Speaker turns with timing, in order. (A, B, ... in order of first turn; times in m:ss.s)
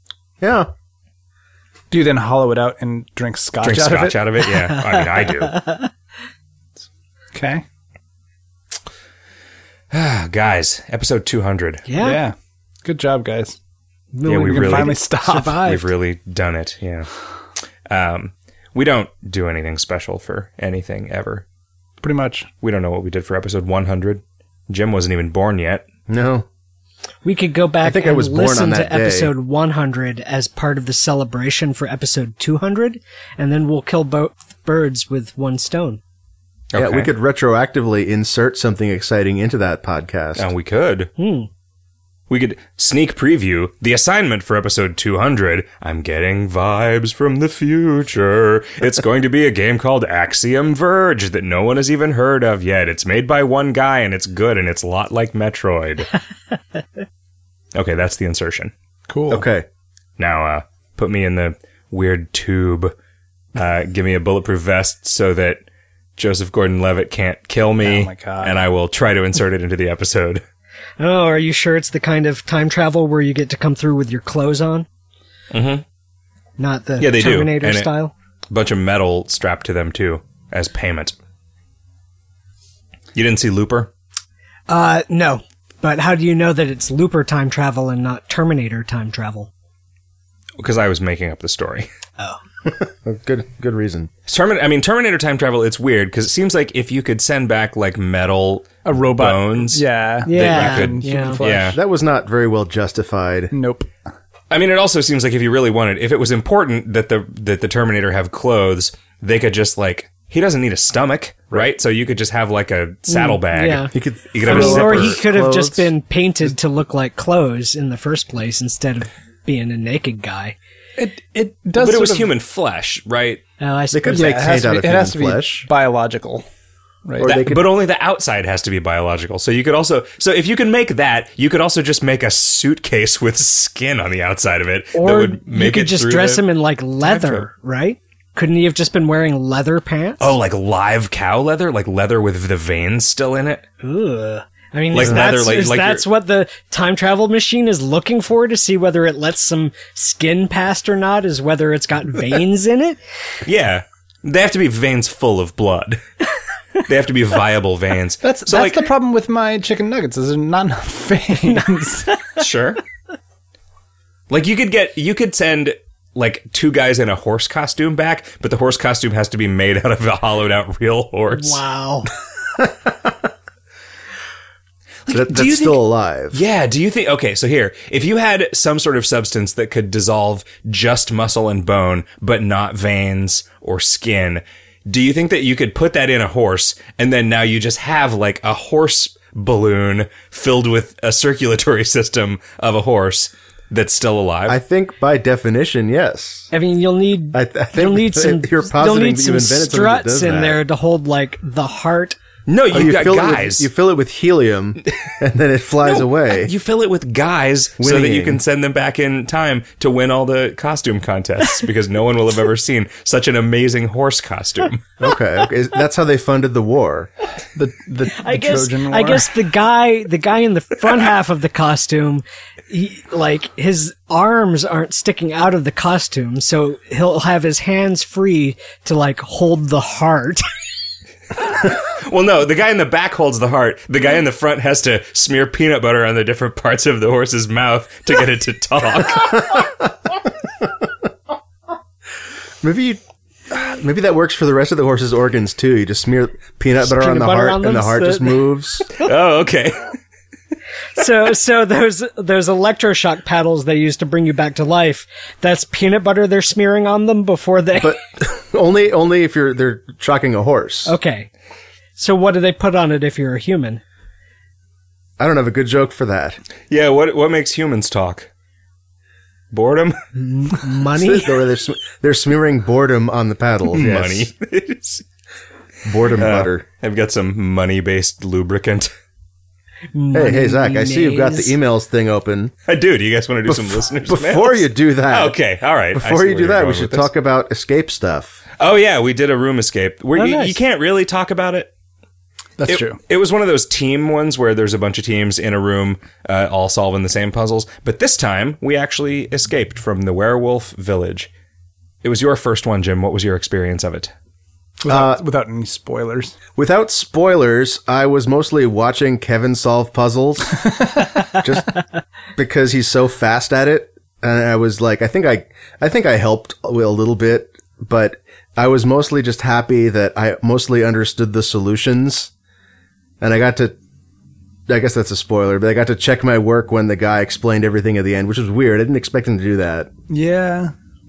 0:00.4-0:00.7 A
0:01.9-0:04.2 B
0:03.6-0:05.6 C
0:04.5-0:05.9 D
0:07.3-0:07.6 B
0:09.9-0:11.9 C
0:11.9-0:12.2 D
0:12.0-0:13.6 B
0:14.1-0:15.9 D
0:14.3-0:15.0 C
0:14.4-0:15.6 B
0:15.6-0:17.1 C
0:17.9-0:21.4 C
0:22.0-0:22.5 B
0:22.6-0:25.9 C
0:26.1-0:26.5 A
0:27.2-0:36.0 D
0:27.8-0:29.3 A
0:36.7-0:37.1 C
0:36.8-0:40.5 A
0:40.4-0:41.1 C
0:41.2-0:41.5 D
0:42.3-0:56.1 C
0:57.7-0:58.7 C
0:59.1-0:59.5 B
0:59.3-0:59.7 A
1:00.2-1:02.9 C
1:03.6-1:05.6 C
1:06.2-1:10.4 C
1:07.8-1:08.6 B
1:11.0-1:14.9 D
1:15.5-1:15.8 C
1:16.6-1:18.1 D
1:17.0-1:17.9 C
1:18.5-1:21.2 C
1:23.2-1:23.9 C
1:24.7-1:29.5 D
1:30.6-1:31.9 C
1:32.7-1:34.1 A
1:34.3-1:41.8 C
1:38.8-1:41.8 B
1:40.3-1:41.4 D
1:41.7-1:43.5 A
1:43.5-1:43.9 B
1:44.5-1:55.2 C
1:53.1-2:00.6 D
1:53.9-1:55.9 A
2:01.0-2:02.3 B
2:01.8-2:03.4 C
2:03.6-2:04.6 D
2:03.9-2:05.7 A
2:04.1-2:06.4 B
2:07.2-2:07.7 A
2:07.2-2:16.4 C
2:14.9-2:20.4 D
2:17.0-2:17.5 C
2:20.2-2:23.6 C
2:23.8-2:33.0 D
2:24.9-2:26.0 C
2:33.4-2:36.0 C
2:36.8-2:38.9 C
2:38.2-2:42.2 B
2:42.4-2:42.8 C
2:44.3-2:51.6 C
2:51.3-2:52.1 D
2:55.1-2:55.8 C
2:55.1-2:56.4 A
2:56.3-3:14.6 C
3:14.5-3:16.5 A
3:16.5-3:22.2 D
3:17.3-3:20.6 A
3:22.5-3:23.7 C
3:22.7-3:26.5 A
3:25.8-3:34.8 C
3:27.8-3:28.4 A
3:35.0-3:37.1 A
3:37.6-3:39.3 B
3:38.1-3:50.4 D
3:51.6-3:59.7 C
4:02.6-4:08.9 A
4:06.8-4:08.4 D
4:09.0-4:10.0 C
4:11.0-4:18.0 D
4:17.8-4:20.9 A
4:20.9-4:21.3 D
4:22.0-4:23.8 D
4:25.2-4:26.4 A
4:26.7-4:28.3 C
4:29.5-4:30.0 C
4:30.2-4:31.3 D
4:31.0-4:34.3 A
4:33.7-4:35.0 C
4:35.9-4:36.6 A
4:36.2-4:38.9 C
4:39.9-4:41.5 D
4:40.1-4:42.5 A
4:42.7-4:47.1 C
4:43.5-4:45.4 A
4:45.9-4:48.4 A
4:48.6-4:51.7 C
4:50.2-4:50.6 D
4:52.6-4:53.0 B
4:52.7-5:01.3 C
5:02.0-5:04.1 C
5:04.8-5:06.4 B
5:04.9-5:05.2 A
5:06.6-5:10.6 A
5:11.3-5:11.8 A
5:12.4-5:22.3 A
5:23.2-5:23.7 A
5:24.7-5:29.9 A
5:30.1-5:30.7 B